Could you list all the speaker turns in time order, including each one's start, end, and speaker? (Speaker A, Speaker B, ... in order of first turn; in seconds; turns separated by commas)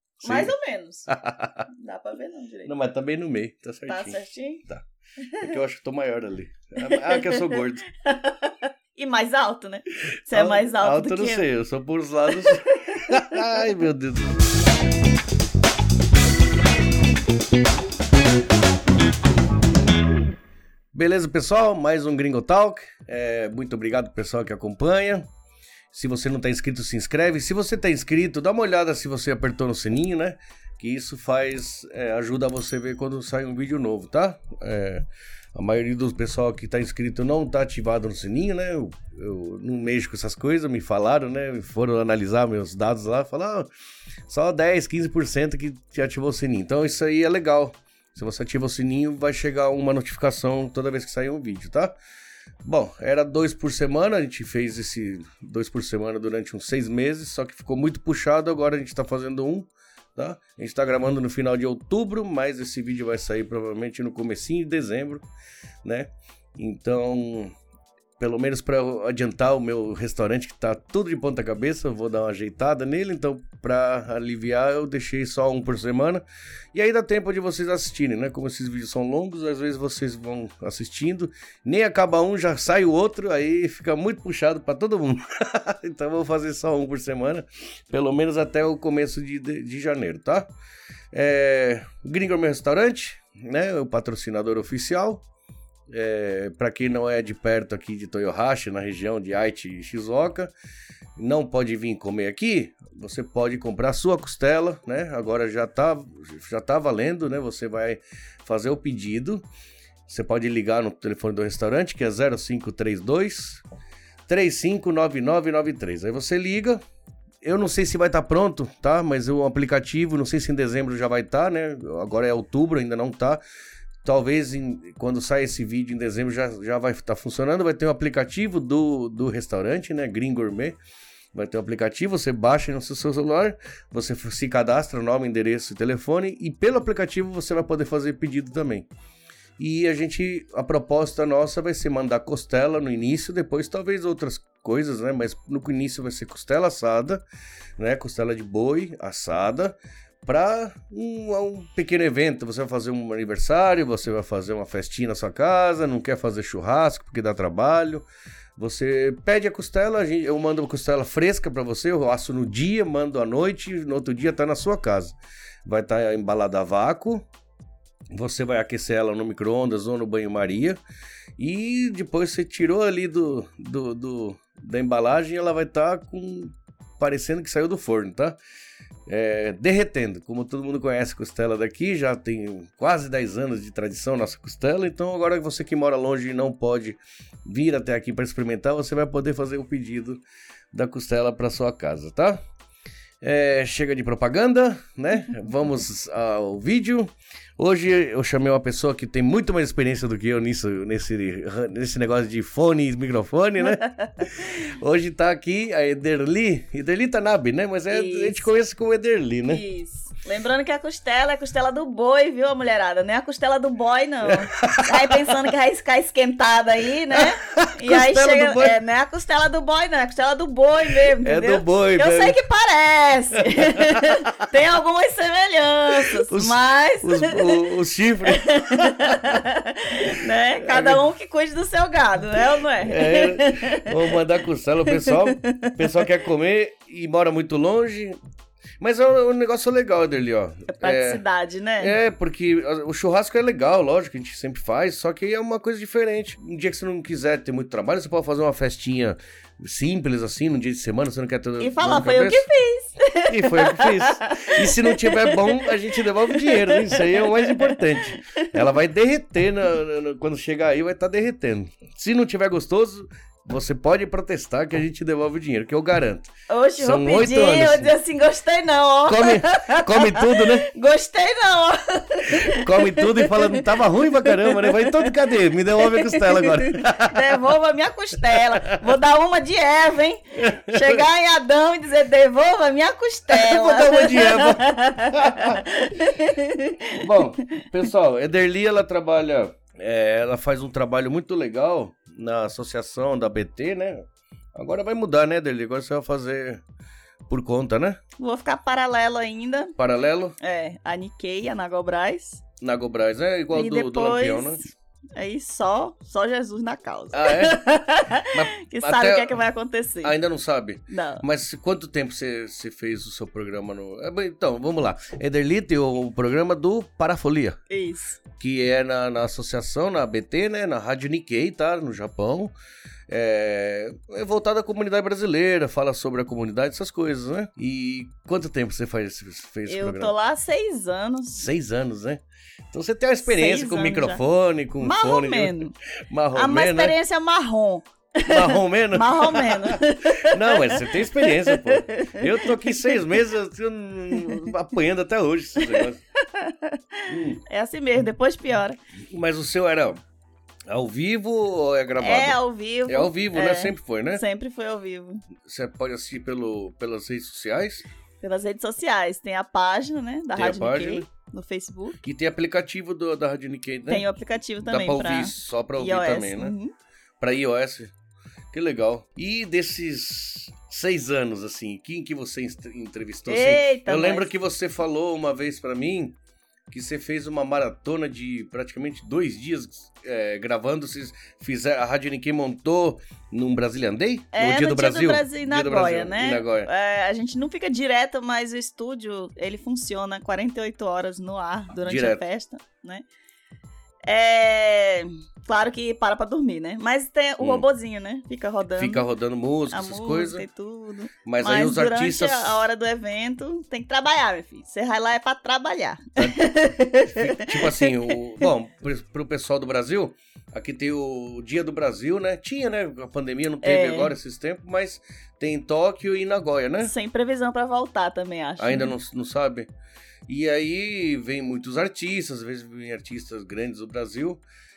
Speaker A: 0.2-1.1, Speaker B: 0.2-0.5, Speaker B: 1.1-1.7, Speaker A: 1.7-2.7, Speaker B: 2.6-4.8, Speaker A: 3.9-4.6, Speaker A: 5.2-5.5, Speaker B: 5.4-7.8, Speaker A: 6.8-11.5, Speaker B: 10.3-14.4, Speaker A: 12.3-13.7, Speaker B: 20.9-25.3, Speaker B: 25.9-43.7, Speaker B: 44.3-51.9, Speaker B: 52.6-65.2, Speaker B: 65.8-67.5, Speaker B: 68.2-76.2, Speaker B: 76.7-90.5, Speaker B: 91.1-95.2, Speaker B: 95.9-100.5, Speaker B: 101.2-109.4, Speaker B: 110.1-113.6, Speaker B: 114.3-116.8, Speaker B: 117.4-123.4, Speaker B: 124.0-130.8, Speaker B: 131.3-138.9, Speaker B: 139.6-147.2, Speaker B: 147.8-158.1, Speaker B: 158.6-167.2, Speaker B: 168.1-170.8, Speaker B: 171.4-178.4, Speaker B: 179.1-190.2, Speaker B: 190.7-192.4, Speaker B: 193.2-209.6, Speaker A: 203.6-204.4, Speaker A: 207.9-208.5, Speaker A: 209.5-227.7, Speaker B: 214.2-215.3, Speaker B: 217.1-218.8, Speaker B: 221.2-222.4, Speaker B: 223.5-224.5, Speaker B: 226.2-229.4, Speaker A: 228.2-234.2, Speaker B: 230.1-231.0, Speaker B: 232.8-238.2, Speaker A: 234.9-236.1, Speaker B: 238.8-241.2, Speaker A: 240.7-241.9, Speaker B: 241.8-252.4, Speaker A: 251.6-258.7, Speaker B: 253.3-267.9, Speaker A: 266.5-287.6, Speaker B: 269.1-270.7, Speaker B: 272.2-277.5, Speaker B: 278.2-278.9, Speaker B: 280.4-281.1, Speaker B: 283.3-285.6, Speaker B: 287.0-296.6, Speaker B: 297.3-298.0, Speaker A: 298.2-299.7, Speaker B: 299.8-300.4, Speaker A: 300.4-302.4, Speaker B: 302.6-304.6, Speaker A: 303.5-310.1, Speaker B: 307.1-307.6, Speaker B: 308.3-309.3, Speaker B: 310.0-317.6, Speaker A: 310.9-311.2, Speaker A: 317.7-318.2, Speaker B: 318.4-322.5, Speaker B: 323.1-330.1, Speaker A: 329.7-331.5, Speaker B: 331.3-336.9, Speaker A: 333.2-334.2, Speaker A: 334.8-335.7, Speaker A: 336.3-343.0, Speaker B: 338.2-346.0, Speaker A: 344.1-344.5, Speaker A: 345.6-348.8, Speaker B: 347.1-347.4, Speaker B: 349.1-350.0, Speaker B: 350.7-354.2, Speaker A: 352.0-355.2, Speaker B: 355.4-357.8, Speaker A: 358.2-362.0, Speaker B: 360.3-361.1, Speaker B: 362.0-364.1, Speaker A: 363.9-366.7, Speaker B: 364.6-366.5, Speaker B: 367.2-367.9, Speaker B: 368.5-376.1, Speaker A: 373.3-374.3, Speaker B: 376.7-386.7, Speaker A: 384.3-393.0, Speaker B: 391.8-392.2, Speaker A: 394.1-399.0, Speaker B: 398.8-400.4, Speaker A: 399.7-408.5, Speaker B: 401.2-402.6, Speaker B: 406.2-406.5, Speaker B: 407.0-416.9, Speaker A: 413.6-414.1, Speaker A: 416.8-418.9, Speaker B: 418.6-419.7, Speaker B: 420.3-424.4